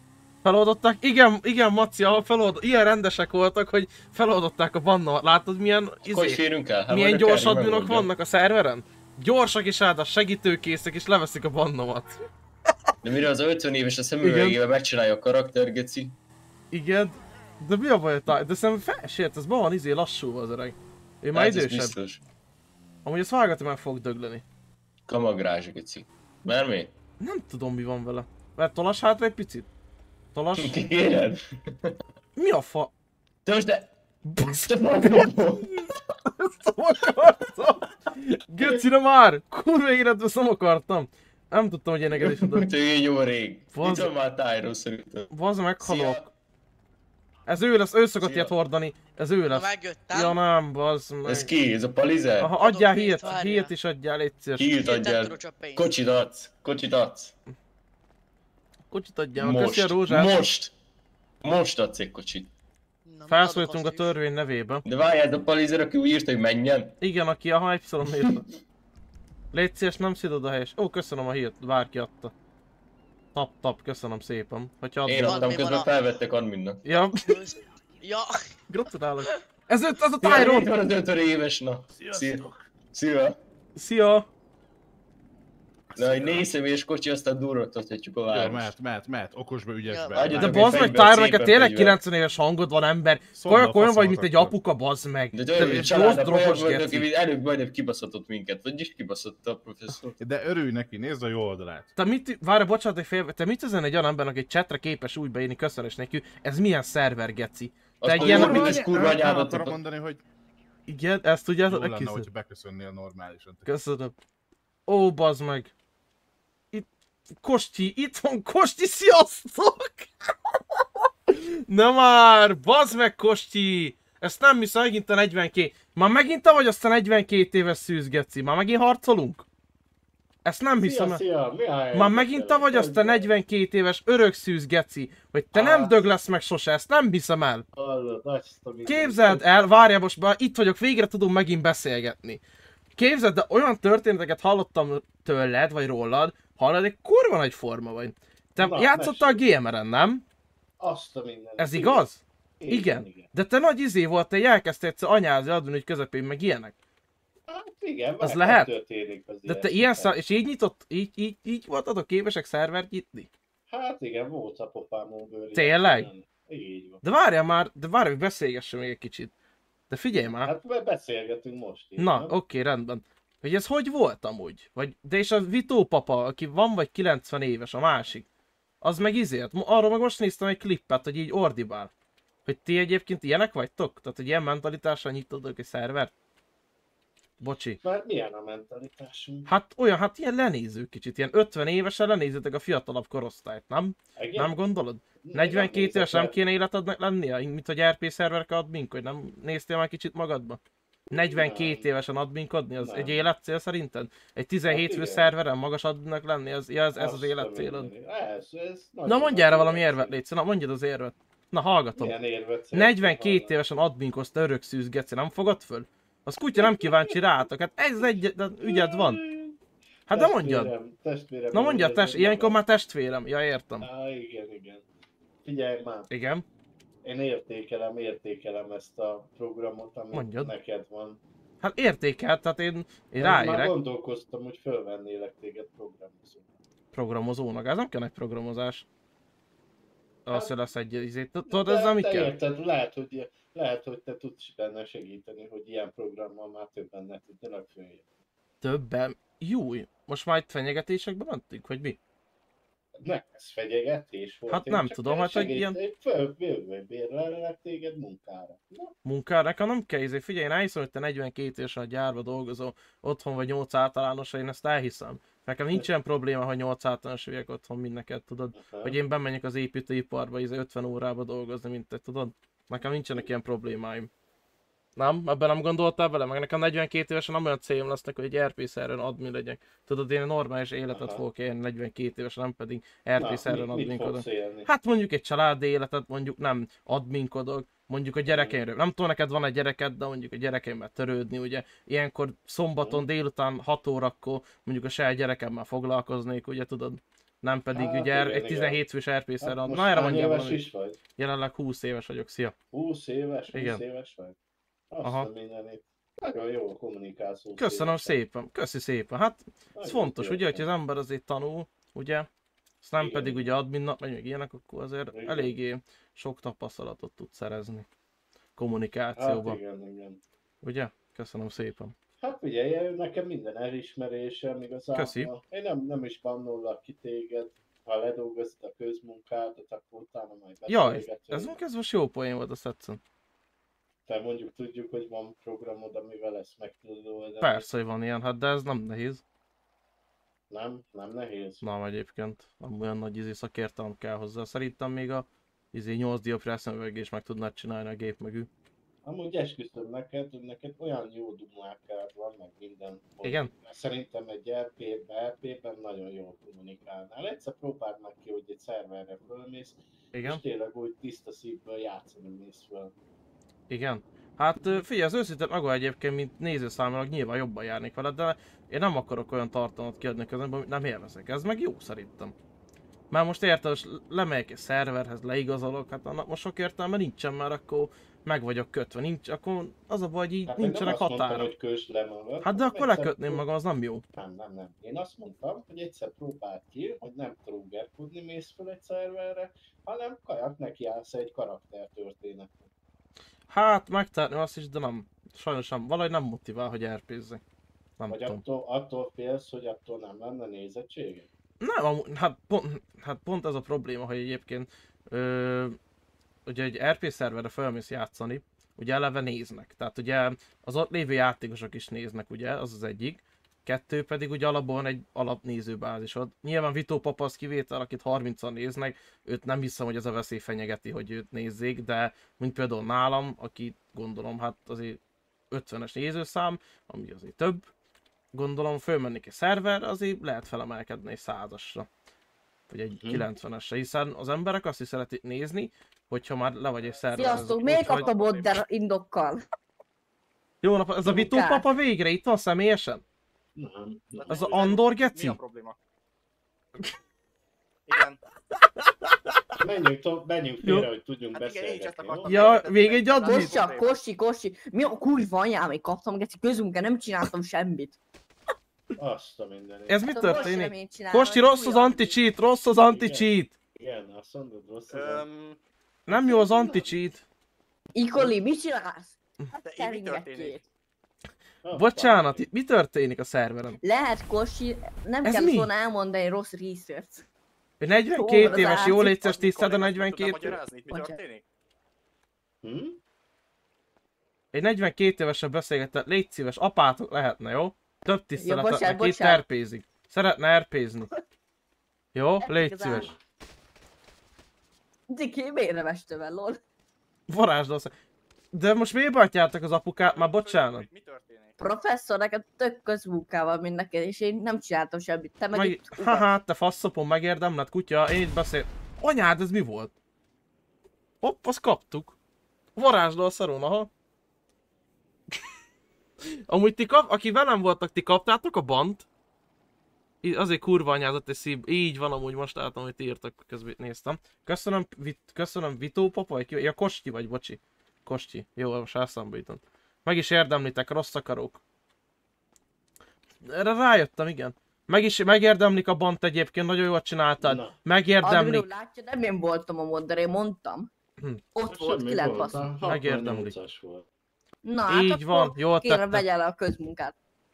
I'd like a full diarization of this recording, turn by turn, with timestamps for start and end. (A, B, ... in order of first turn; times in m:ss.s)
0:00.4-0:12.2 A
0:06.0-0:08.1 B
0:13.0-0:16.2 B
0:14.2-0:14.6 A
0:16.7-0:22.0 A
0:21.3-0:22.2 B
0:23.0-0:24.4 A
0:25.1-0:26.9 B
0:27.2-0:29.7 A
0:30.3-0:30.8 A
0:30.6-0:32.0 B
0:32.4-0:32.9 A
0:33.4-0:33.9 B
0:34.3-0:42.7 A
0:34.5-0:35.7 B
0:42.1-0:45.3 B
0:43.7-0:44.1 A
0:45.3-0:46.2 A
0:45.8-0:46.3 B
0:47.5-0:51.5 A
0:48.2-0:48.5 B
0:49.5-0:50.4 C
0:51.3-0:52.5 B
0:52.4-0:54.7 A
0:52.6-0:53.7 C
0:54.6-0:57.4 B
0:54.8-0:55.9 C
0:58.9-1:00.4 A
0:59.4-1:00.7 B
1:01.4-1:02.5 B
1:03.1-1:04.1 C
1:03.3-1:04.8 A
1:04.8-1:07.0 B
1:07.0-1:08.4 A
1:09.5-1:12.3 A
1:13.3-1:15.6 A
1:15.1-1:16.8 B
1:15.2-1:15.9 C
1:16.8-1:17.2 A
1:17.2-1:18.4 C
1:18.7-1:20.7 A
1:20.2-1:23.4 B
1:22.2-1:22.5 D
1:23.8-1:24.3 A
1:25.9-1:26.5 D
1:26.0-1:28.7 B
1:28.3-1:30.9 D
1:29.9-1:30.3 C
1:30.1-1:32.0 B
1:30.4-1:37.1 A
1:33.4-1:34.6 D
1:35.3-1:40.1 B
1:35.6-1:36.2 D
1:40.2-1:41.9 D
1:42.0-1:48.8 A
1:48.0-1:49.8 B
1:48.0-1:50.2 D
1:50.9-1:52.3 A
1:51.7-1:53.7 D
1:53.6-1:54.1 A
1:54.9-1:55.7 A
1:57.4-2:09.4 A
2:10.4-2:11.2 A
2:10.8-2:13.3 E
2:11.9-2:17.6 A
2:15.5-2:16.0 E
2:17.8-2:19.5 E
2:18.8-2:22.4 A
2:23.0-2:30.2 A
2:28.6-2:29.4 E
2:30.8-2:32.1 E
2:31.6-2:36.8 A
2:32.6-2:33.3 E
2:37.5-2:40.2 E
2:38.2-2:38.7 A
2:39.5-2:43.3 A
2:43.7-2:47.0 E
2:45.5-2:46.1 A
2:47.0-2:49.3 A
2:49.9-2:50.5 A
2:50.4-2:52.4 E
2:52.0-2:58.3 A
2:58.8-3:01.9 A
3:02.4-3:06.1 A
3:07.4-3:07.8 A
3:07.8-3:09.5 E
3:09.5-3:20.6 A
3:14.2-3:14.6 E
3:15.2-3:16.4 E
3:21.1-3:27.9 A
3:21.1-3:21.9 E
3:22.8-3:23.3 E
3:24.7-3:25.3 E
3:26.9-3:30.2 E
3:29.0-3:32.2 A
3:32.0-3:33.6 E
3:32.7-3:39.2 A
3:36.6-3:37.2 E
3:38.6-3:39.6 E
3:40.1-3:40.7 A
3:40.1-3:42.6 E
3:41.5-3:43.9 A
3:43.8-3:44.8 E
3:45.4-3:46.1 E
3:46.1-3:46.4 A
3:47.0-3:51.2 E
3:50.1-3:50.5 A
3:51.6-3:53.8 A
3:53.2-3:56.6 E
3:56.9-3:58.8 A
4:00.3-4:00.5 E
4:00.3-4:02.4 A
4:01.5-4:08.1 E
4:08.6-4:12.0 A
4:13.0-4:18.9 E
4:14.5-4:15.8 A
4:19.0-4:34.1 A
4:28.5-4:29.0 E
4:35.0-5:00.6 A
4:40.9-4:41.2 E
4:43.2-4:44.7 E
4:48.3-4:48.6 E
4:52.8-4:53.1 E
4:57.7-4:58.8 E
4:59.4-5:01.0 E
5:01.2-5:02.6 A
5:02.7-5:04.4 E
5:03.5-5:03.8 A
5:04.9-5:08.2 E
5:05.0-5:05.3 A
5:07.6-5:12.3 A
5:09.8-5:10.7 E
5:12.8-5:17.9 A
5:13.0-5:13.6 E
5:15.1-5:15.6 E
5:18.6-5:19.6 A
5:19.2-5:20.2 E
5:20.6-5:21.9 A
5:22.2-5:31.6 E
5:24.9-5:25.3 A
5:30.7-5:33.0 A
5:34.1-5:37.7 E
5:37.4-5:39.2 A
5:40.5-5:41.6 E
5:41.6-5:48.5 A
5:49.0-6:02.9 E
5:53.2-5:53.5 A
6:00.1-6:00.4 A
6:03.7-6:12.3 A
6:13.1-6:21.5 A
6:20.5-6:23.4 E
6:22.4-6:24.0 A
6:24.1-6:32.7 E
6:33.5-6:37.4 A
6:38.0-6:38.4 A
6:38.1-6:41.3 E
6:41.6-6:45.8 A
6:46.5-7:05.0 A
7:05.5-7:07.7 A
7:08.3-7:11.9 A
7:12.7-7:18.1 A
7:12.9-7:13.3 E
7:16.8-7:18.6 F
7:17.2-7:19.4 G
7:20.6-7:23.0 A
7:21.1-7:21.6 G
7:23.6-7:24.8 E
7:24.2-7:25.8 F
7:24.3-7:25.4 A
7:27.9-7:28.2 F
7:29.6-7:32.4 E
7:30.6-7:30.9 A
7:31.3-7:34.0 F
7:32.3-7:33.6 A
7:33.2-7:38.0 G
7:39.0-7:40.3 E
7:39.9-7:43.5 A
7:40.1-7:42.2 G
7:42.8-7:45.3 E
7:44.9-7:45.6 F
7:46.1-7:47.2 A
7:46.1-7:47.0 E
7:48.0-7:49.2 G
7:49.6-7:50.6 F
7:49.7-7:50.6 G
7:51.6-7:52.5 E
7:51.7-7:53.8 A
7:53.8-7:57.2 G
7:55.2-7:55.7 A
7:57.8-8:00.6 A
7:58.2-7:59.1 G
7:58.4-8:01.4 F
8:00.9-8:01.2 G
8:02.6-8:03.0 E
8:04.5-8:11.1 A
8:08.4-8:09.4 G
8:12.1-8:13.1 A
8:12.4-8:13.1 G
8:15.1-8:16.6 G
8:17.3-8:17.9 A
8:18.5-8:20.9 A
8:20.0-8:21.6 F
8:21.6-8:26.2 G
8:25.5-8:29.9 A
8:31.2-8:32.2 A
8:32.8-8:33.9 A
8:36.5-8:39.1 A
8:40.2-8:51.6 A
8:53.4-8:58.7 A
8:57.4-8:57.8 E
8:58.2-9:00.9 G
9:01.6-9:02.8 G
9:01.7-9:04.0 E
9:02.8-9:03.6 A
9:04.6-9:07.1 G
9:04.9-9:06.2 A